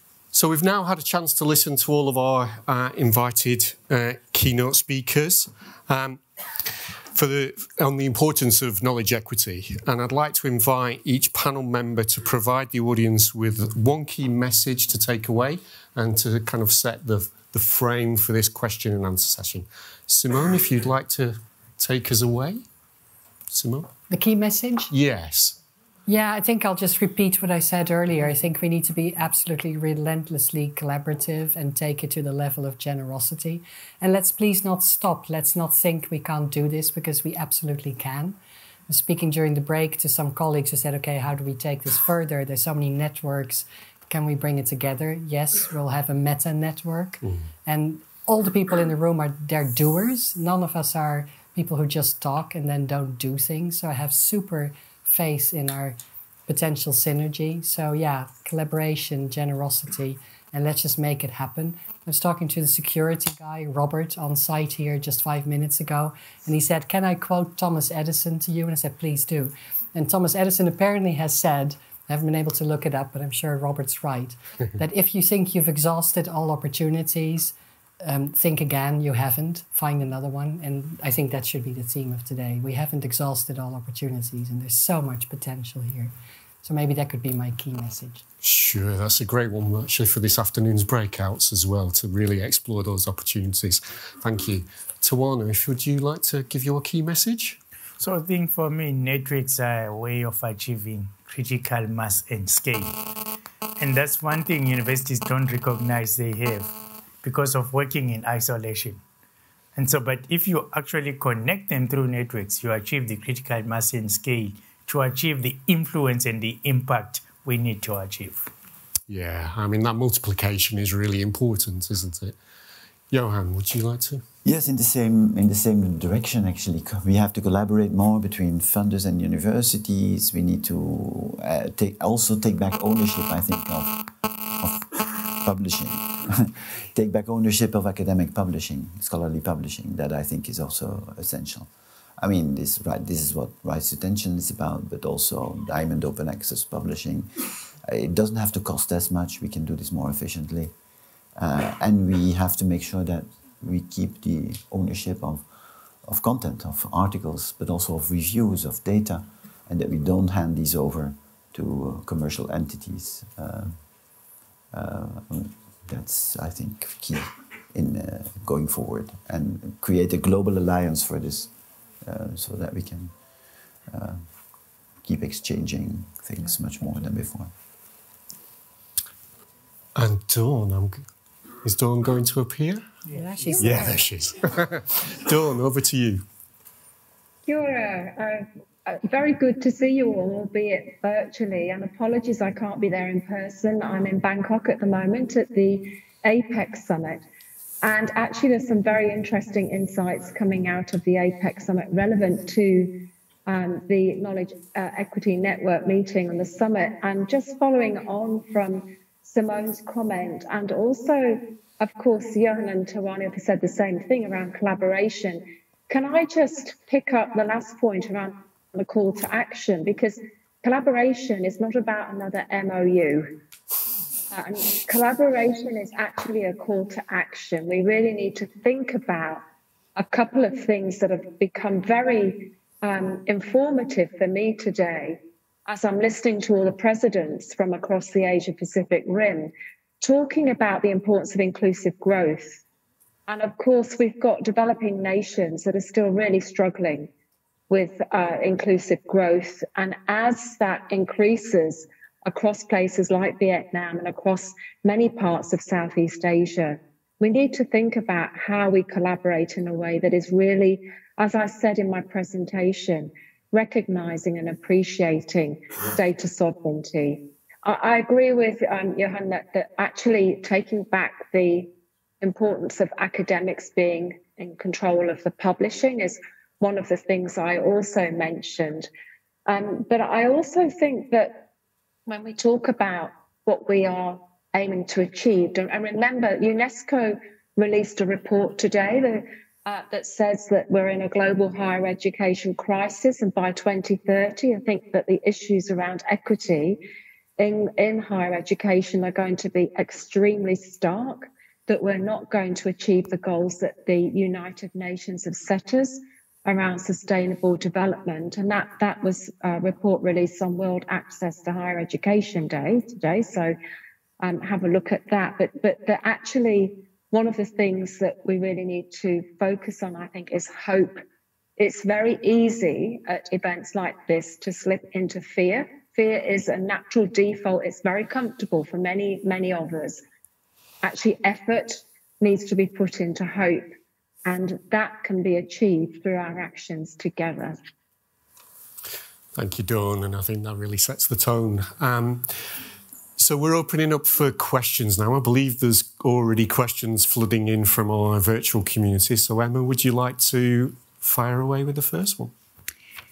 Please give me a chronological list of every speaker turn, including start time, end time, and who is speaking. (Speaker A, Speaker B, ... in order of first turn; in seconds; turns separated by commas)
Speaker A: 0.3-22.6, Speaker A: 23.5-23.9, Speaker B: 24.1-24.9, Speaker A: 24.9-25.6, Speaker B: 26.1-38.4, Speaker B: 38.9-56.0, Speaker A: 47.2-47.5, Speaker B: 56.5-86.1, Speaker B: 86.6-88.2, Speaker A: 88.4-97.6, Speaker C: 98.0-102.9, Speaker C: 103.8-106.7, Speaker C: 107.2-109.0, Speaker C: 109.8-118.5, Speaker A: 119.1-122.4, Speaker A: 123.1-124.2, Speaker D: 124.4-150.7, Speaker D: 151.3-155.5, Speaker D: 156.0-163.8, Speaker D: 164.7-173.1, Speaker D: 173.9-174.3, Speaker D: 175.0-177.5, Speaker A: 179.9-181.1, Speaker A: 181.6-182.9, Speaker B: 183.1-183.9, Speaker E: 183.5-183.9, Speaker A: 183.6-186.3, Speaker E: 187.4-197.2, Speaker E: 197.8-223.3, Speaker E: 224.3-229.4, Speaker E: 229.9-242.6, Speaker E: 243.3-247.1, Speaker E: 247.7-278.9, Speaker E: 279.5-281.4, Speaker E: 282.1-296.8, Speaker E: 297.4-313.5, Speaker E: 314.2-321.0, Speaker E: 321.6-330.0, Speaker E: 330.8-333.6, Speaker E: 334.2-337.6, Speaker A: 339.3-352.3